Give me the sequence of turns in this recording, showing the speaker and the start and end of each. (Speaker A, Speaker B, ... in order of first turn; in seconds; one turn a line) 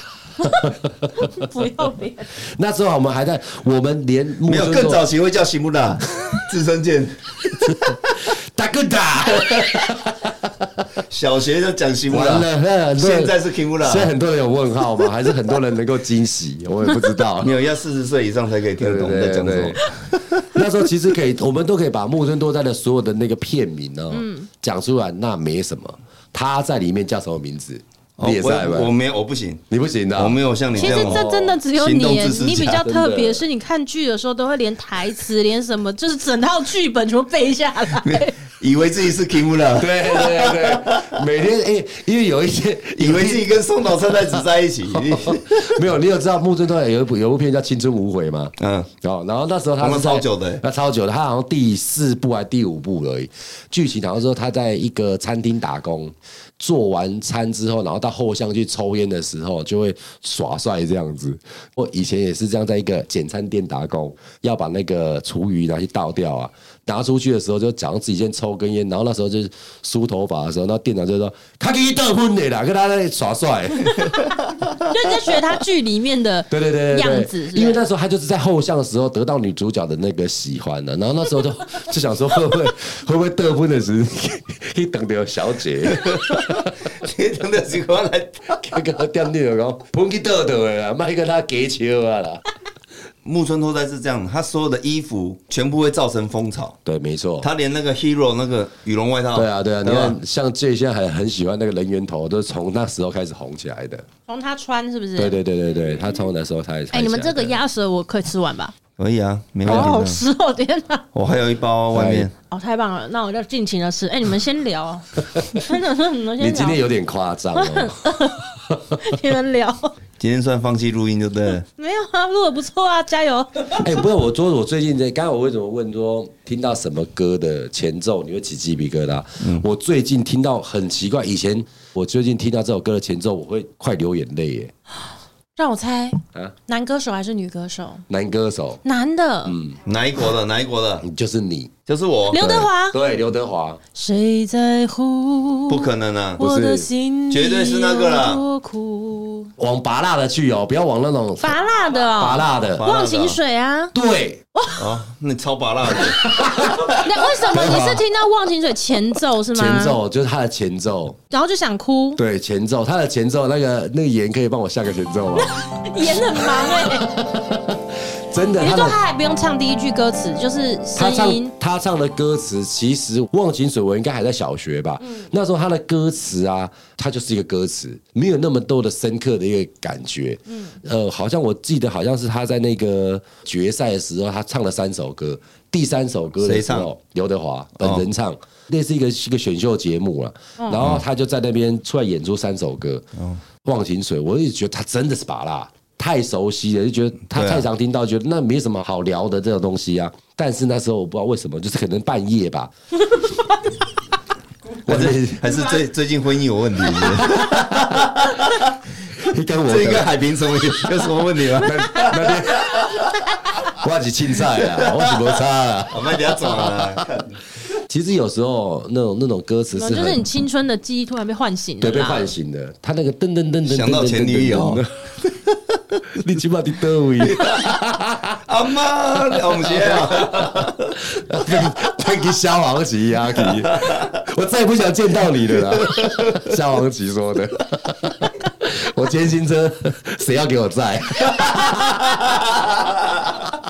Speaker A: 0.4-1.3
Speaker B: 0.4-2.3
Speaker A: 2.4-5.0
Speaker C: 4.5-8.1
Speaker A: 7.5-10.8
Speaker C: 9.5-9.8
Speaker C: 11.1-14.1
Speaker A: 12.1-17.5
Speaker C: 17.4-20.5
Speaker A: 18.8-19.8
Speaker A: 20.4-28.9
Speaker B: 24.1-24.5
Speaker C: 28.2-29.6
Speaker A: 29.7-31.6
Speaker C: 30.1-32.8
Speaker B: 30.8-38.4
Speaker A: 32.8-33.4
Speaker C: 37.9-41.2
Speaker A: 39.8-43.5
Speaker C: 43.0-45.8
Speaker A: 44.3-74.2
Speaker C: 48.6-48.9
Speaker C: 49.8-50.6
Speaker B: 74.8-77.8
Speaker A: 76.5-86.7
Speaker C: 85.9-88.8
Speaker A: 88.6-92.4
Speaker C: 93.2-96.8
Speaker A: 96.8-97.5
Speaker C: 97.4-100.2
Speaker A: 99.3-104.0
Speaker B: 104.3-105.4
Speaker A: 105.2-107.6
Speaker B: 106.9-108.7
Speaker C: 109.0-110.2
Speaker B: 109.6-111.0
Speaker A: 109.7-110.0
Speaker C: 111.1-112.3
Speaker A: 111.9-112.3
Speaker B: 112.5-116.8
Speaker A: 116.4-118.2
Speaker B: 117.5-119.9
Speaker A: 118.7-119.1
Speaker C: 120.2-121.7
Speaker B: 121.8-123.8
Speaker A: 123.8-134.7
Speaker C: 129.4-129.7
Speaker B: 135.6-138.0
Speaker A: 138.1-138.8
Speaker B: 138.8-139.6
Speaker A: 139.4-139.8
Speaker C: 139.8-141.0
Speaker A: 141.0-141.7
Speaker C: 141.9-142.4
Speaker B: 142.3-143.0
Speaker A: 142.3-143.8
Speaker B: 143.9-149.5
Speaker C: 145.7-146.4
Speaker A: 146.4-146.9
Speaker C: 147.3-148.4
Speaker A: 149.6-151.6
Speaker B: 151.4-153.9
Speaker A: 152.2-152.8
Speaker C: 152.7-153.4
Speaker A: 153.9-154.4
Speaker B: 154.5-154.9
Speaker C: 154.8-156.2
Speaker A: 155.9-158.0
Speaker B: 156.9-160.0
Speaker A: 159.5-161.2
Speaker B: 161.3-162.2
Speaker A: 162.2-169.0
Speaker B: 165.3-167.2
Speaker B: 168.6-171.5
Speaker A: 170.9-193.1
Speaker B: 180.5-180.7
Speaker C: 186.4-186.9
Speaker C: 187.8-188.0
Speaker B: 190.6-190.8
Speaker A: 193.6-202.7
Speaker C: 197.3-197.7
Speaker C: 204.8-208.8
Speaker A: 204.8-205.6
Speaker A: 207.0-207.8
Speaker A: 209.2-210.1
Speaker C: 209.6-213.3
Speaker A: 211.6-212.9
Speaker A: 213.7-216.8
Speaker C: 214.5-217.4
Speaker A: 217.9-220.2
Speaker B: 219.7-222.3
Speaker A: 221.8-224.9
Speaker C: 223.7-224.8
Speaker A: 226.1-228.4
Speaker C: 227.2-227.8
Speaker C: 228.4-231.0
Speaker A: 229.3-242.4
Speaker C: 233.5-234.2
Speaker C: 235.7-236.5
Speaker C: 241.2-243.4